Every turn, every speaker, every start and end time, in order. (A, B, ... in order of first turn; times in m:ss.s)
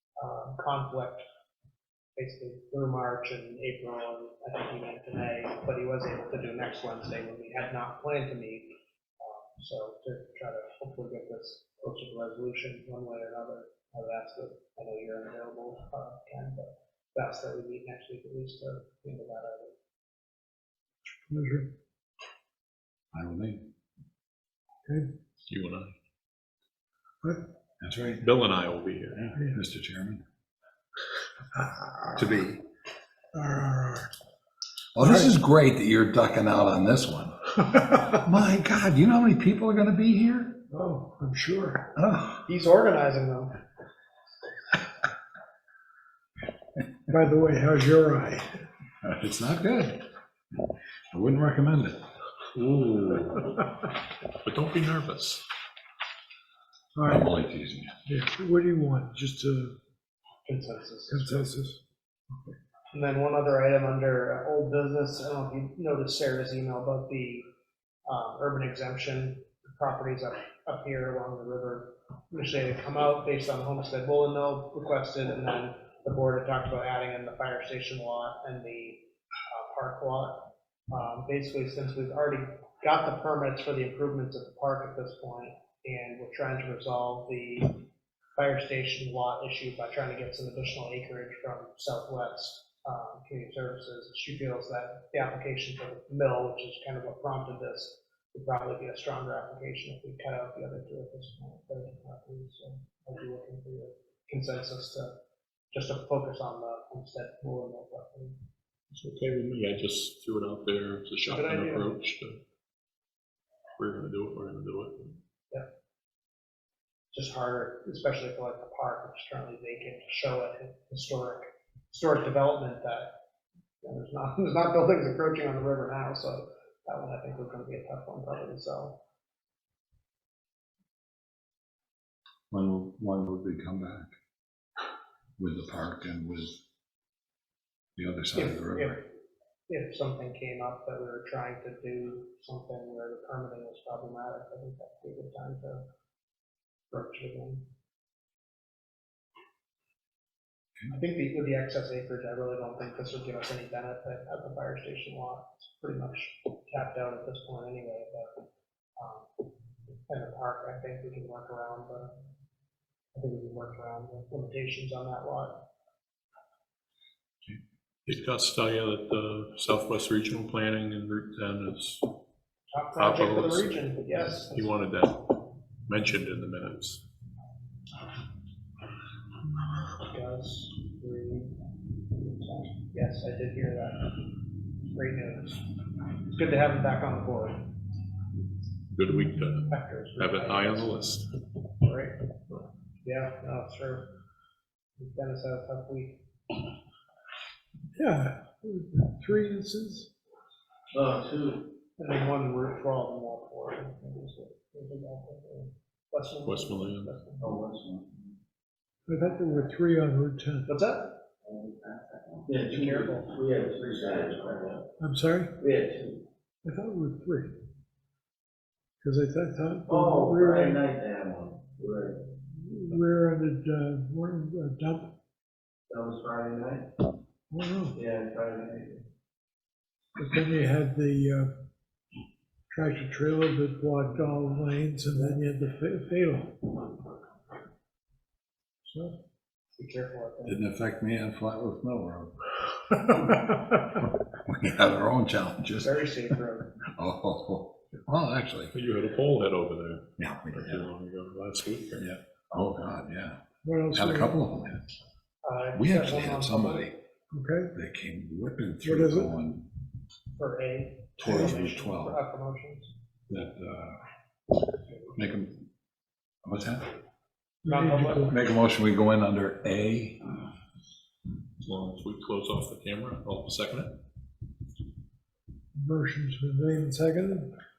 0:00.2-0:01.2 A
0:02.2-0:19.8 A
0:21.3-0:21.7 B
0:23.1-0:23.7 C
0:25.5-0:25.9 D
0:27.8-0:28.2 C
0:28.2-0:29.3 D
0:29.5-0:30.2 C
0:31.5-0:32.4 B
0:32.2-0:32.6 C
0:33.3-0:34.1 B
0:34.9-0:40.6 C
0:35.0-0:35.3 B
0:40.7-0:41.9 B
0:41.9-0:42.4 C
0:42.4-0:43.5 A
0:47.1-0:48.6 B
0:49.0-0:50.1 C
0:51.1-0:52.0 C
0:52.5-0:53.4 C
0:54.4-0:55.4 D
0:56.9-0:57.3 B
0:57.1-0:57.9 C
0:58.1-0:59.8 B
1:00.4-1:01.4 A
1:01.1-1:01.8 B
1:02.9-1:07.5 A
1:08.0-1:27.8 A
1:28.3-1:45.2 A
1:45.7-1:48.4 A
1:48.9-1:52.4 D
1:51.2-1:51.9 A
1:53.8-1:55.2 D
1:57.1-2:03.2 A
2:03.8-2:09.0 A
2:12.5-2:14.1 C
2:15.4-2:16.6 C
2:18.0-2:19.0 C
2:18.3-2:19.0 A
2:19.7-2:25.8 A
2:26.9-2:27.6 A
2:30.9-2:39.5 A
2:40.1-2:42.2 A
2:43.1-2:45.6 A
2:48.0-2:52.0 D
2:52.7-2:54.7 A
2:53.0-2:53.7 D
2:54.4-2:55.3 D
2:55.8-2:57.0 D
2:59.9-3:01.6 A
3:02.1-3:05.6 A
3:06.2-3:07.7 A
3:08.9-3:11.2 D
3:09.7-3:11.0 A
3:11.8-3:12.2 A
3:13.0-3:14.1 A
3:15.0-3:16.2 A
3:18.0-3:20.1 B
3:20.9-3:21.7 E
3:22.0-3:27.6 A
3:26.4-3:27.2 D
3:27.4-3:28.3 E
3:29.1-3:30.7 B
3:30.7-3:31.2 A
3:31.5-3:34.8 E
3:32.5-3:33.4 A
3:35.0-3:35.5 B
3:35.6-3:36.2 E
3:36.6-3:37.5 B
3:39.0-3:40.8 B
3:39.9-3:42.2 E
3:42.5-3:45.1 B
3:45.9-3:46.9 E
3:47.5-3:48.0 B
3:47.9-3:49.0 E
3:50.2-3:51.5 B
3:52.7-3:56.8 B
3:58.8-3:59.2 B
3:59.8-4:00.6 A
4:00.4-4:02.4 C
4:04.3-4:06.0 C
4:05.8-4:06.7 A
4:06.9-4:08.7 C
4:08.7-4:12.1 D
4:10.2-4:10.9 C
4:12.0-4:13.4 C
4:13.6-4:14.4 B
4:13.9-4:14.8 C
4:15.4-4:16.9 A
4:15.7-4:16.9 C
4:17.3-4:17.7 B
4:17.7-4:19.6 C
4:18.8-4:19.3 B
4:20.3-4:22.9 A
4:21.2-4:22.2 C
4:23.3-4:24.0 C
4:24.9-4:25.3 A
4:25.2-4:25.6 C
4:26.4-4:26.9 C
4:27.6-4:28.3 B
4:27.6-4:28.3 A
4:28.2-4:30.3 C
4:31.6-4:34.0 D
4:35.7-4:37.5 B